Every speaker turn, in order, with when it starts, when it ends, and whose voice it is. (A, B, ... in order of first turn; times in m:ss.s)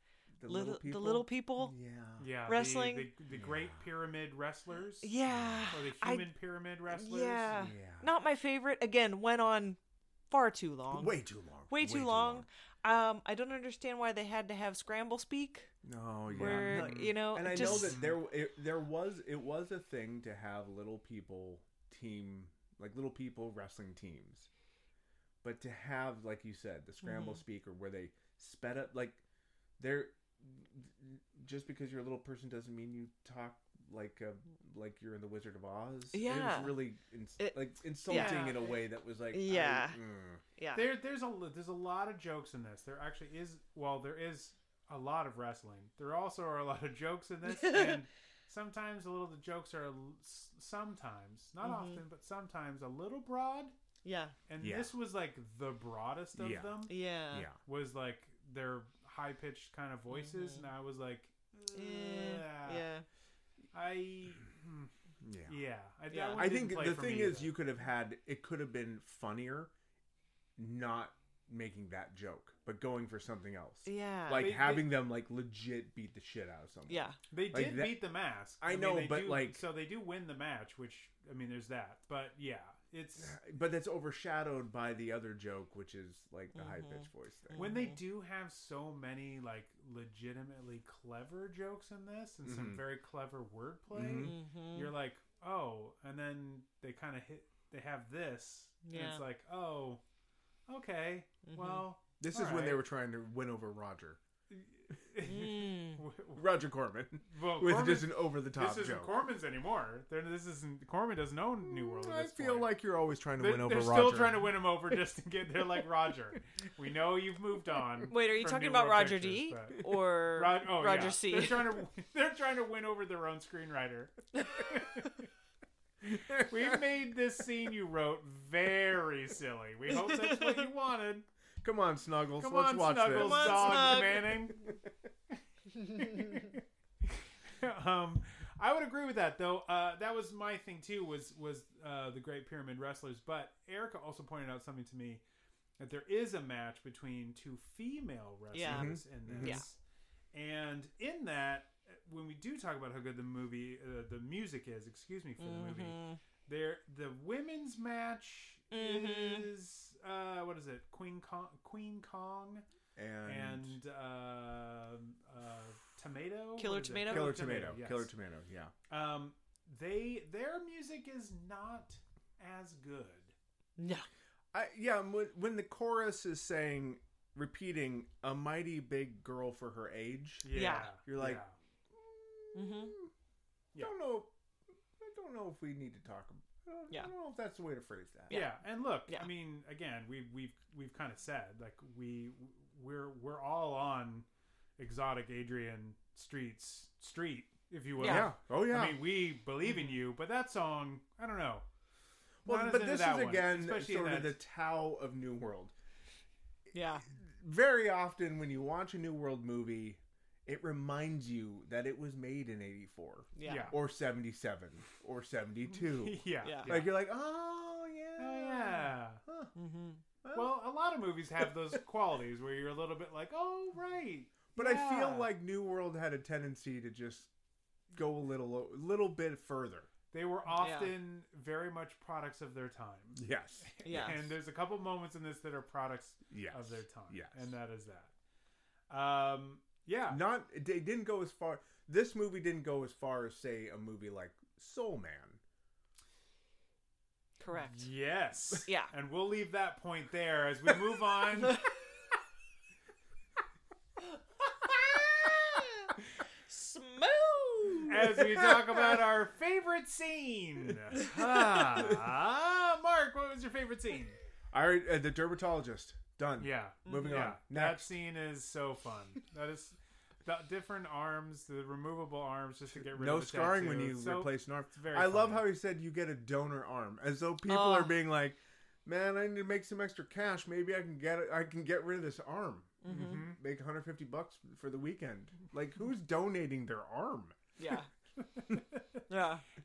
0:00.4-0:02.3 A
0:00.5-0:01.7 B
0:02.2-0:05.1 C
0:02.5-0:03.1 B
0:03.3-0:03.8 A
0:05.0-0:06.3 B
0:05.2-0:05.7 A
0:05.7-0:07.6 C
0:06.9-0:09.8 B
0:07.5-0:08.1 A
0:10.3-0:15.7 B
0:10.9-0:12.5 A
0:15.8-0:24.5 A
0:16.3-0:18.2 C
0:16.3-0:18.0 B
0:25.4-0:29.2 A
0:27.0-0:27.4 B
0:29.8-0:40.4 A
0:36.1-0:36.8 B
0:37.4-0:40.0 B
0:38.1-0:38.5 C
0:40.6-0:40.9 B
0:40.7-0:53.7 C
0:47.4-0:48.0 B
0:51.6-0:52.0 B
0:54.0-0:54.4 B
0:54.5-0:56.9 C
0:54.6-0:54.9 A
0:56.4-0:56.8 A
0:56.9-0:57.5 B
0:57.3-0:57.6 A
0:57.6-1:02.9 C
1:00.1-1:00.7 B
1:01.7-1:03.0 B
1:03.7-1:04.9 C
1:05.2-1:05.6 A
1:05.5-1:07.6 C
1:06.1-1:06.5 B
1:06.4-1:09.7 A
1:10.6-1:18.1 A
1:13.8-1:14.5 B
1:14.3-1:15.0 C
1:16.9-1:17.2 B
1:17.3-1:23.4 C
1:18.6-1:19.6 A
1:23.2-1:27.8 A
1:26.5-1:28.0 B
1:27.6-1:40.0 C
1:32.4-1:32.8 A
1:33.9-1:34.4 A
1:34.0-1:34.9 B
1:38.8-1:39.2 B
1:40.7-1:42.8 C
1:41.4-1:41.9 B
1:42.2-1:44.2 A
1:44.5-1:46.5 C
1:45.2-1:46.0 B
1:46.3-1:49.1 A
1:47.3-1:52.7 C
1:51.6-1:54.5 A
1:53.4-2:05.2 C
1:58.1-2:01.8 B
2:06.0-2:11.3 C
2:06.3-2:06.8 A
2:09.9-2:10.7 B
2:11.6-2:14.7 A
2:12.4-2:14.7 C
2:13.1-2:14.2 B
2:15.9-2:25.2 C
2:25.8-2:29.8 C
2:28.5-2:29.6 B
2:28.6-2:29.6 A
2:30.3-2:42.6 C
2:35.4-2:36.2 B
2:38.7-2:39.5 B
2:43.0-2:43.8 A
2:43.2-2:48.1 C
2:46.6-2:47.4 B
2:47.1-2:48.7 A
2:48.9-2:53.3 C
2:53.8-2:54.1 B
2:54.5-3:03.1 A
3:00.4-3:01.6 C
3:00.5-3:00.9 B
3:02.5-3:03.0 B
3:03.8-3:04.3 A
3:05.0-3:08.4 A
3:08.3-3:08.6 B
3:08.3-3:14.3 C
3:14.8-3:21.6 C
3:18.0-3:18.3 B
3:18.0-3:19.0 A
3:22.4-3:25.7 A
3:22.4-3:24.4 C
3:26.7-3:27.1 B
3:27.1-3:39.5 A
3:33.4-3:33.8 B
3:33.4-3:33.8 C
3:35.8-3:37.0 C
3:36.4-3:36.8 B
3:38.2-3:39.2 C
3:39.6-3:40.0 B
3:40.2-3:40.5 A
3:40.3-3:45.3 C
3:44.6-3:47.3 A
3:47.9-3:49.9 A
3:50.1-3:58.1 C
3:50.6-3:50.9 B
3:53.2-3:54.3 A
3:53.8-3:54.2 B
3:56.3-3:57.5 A
3:58.9-4:00.2 C
4:00.1-4:05.4 A
4:07.4-4:07.9 B
4:07.6-4:11.6 C
4:08.6-4:08.9 B
4:15.2-4:15.9 B
4:16.5-4:18.1 B
4:17.9-4:24.2 C
4:18.2-4:18.8 A
4:24.5-4:27.9 A
4:26.4-4:35.5 C
4:26.8-4:27.3 B
4:32.7-4:47.4 A
4:37.5-4:38.0 B
4:42.8-4:43.3 B
4:42.9-4:43.4 C
4:47.6-4:47.9 B
4:48.4-4:48.8 C
4:49.1-4:49.4 B